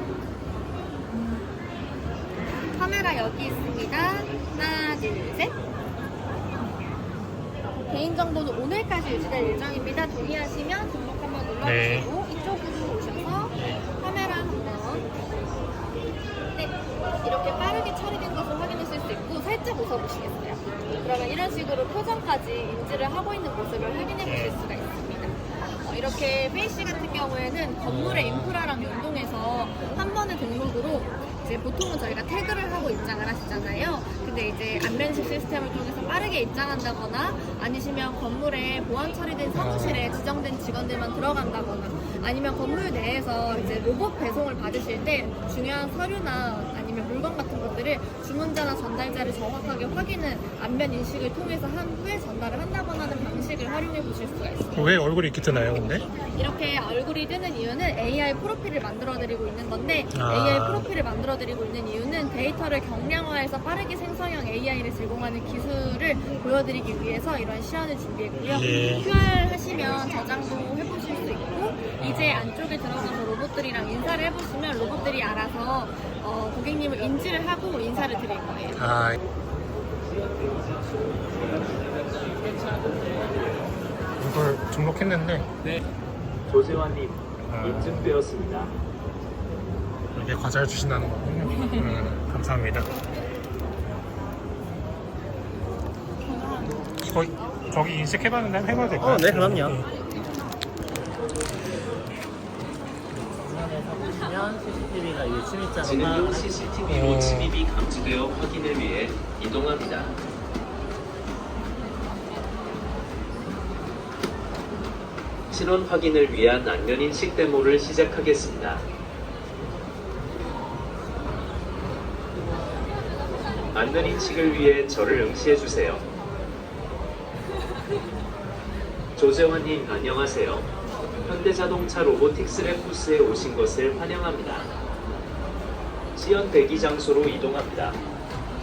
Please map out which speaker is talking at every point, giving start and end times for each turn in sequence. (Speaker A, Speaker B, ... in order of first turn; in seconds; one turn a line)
Speaker A: 2.7-5.6
Speaker A: 7.9-15.1
Speaker B: 11.6-12.1
Speaker B: 13.5-13.8
Speaker A: 16.5-55.0
Speaker B: 24.2-24.6
Speaker B: 27.8-28.6
Speaker B: 39.5-40.1
Speaker B: 54.7-56.0
Speaker A: 56.1-78.9
Speaker B: 60.1-60.9
Speaker B: 68.4-69.1
Speaker B: 72.0-72.5
Speaker B: 78.8-79.2
Speaker B: 84.2-85.5
Speaker C: 86.5-88.7
Speaker B: 87.5-88.1
Speaker B: 90.1-92.9
Speaker B: 97.0-99.9
Speaker D: 99.1-99.7
Speaker D: 103.4-106.7
Speaker C: 105.8-110.1
Speaker B: 106.9-107.5
Speaker C: 115.5-118.8
Speaker C: 123.7-126.0
Speaker C: 129.2-130.7
Speaker C: 131.2-134.7
Speaker C: 136.2-138.0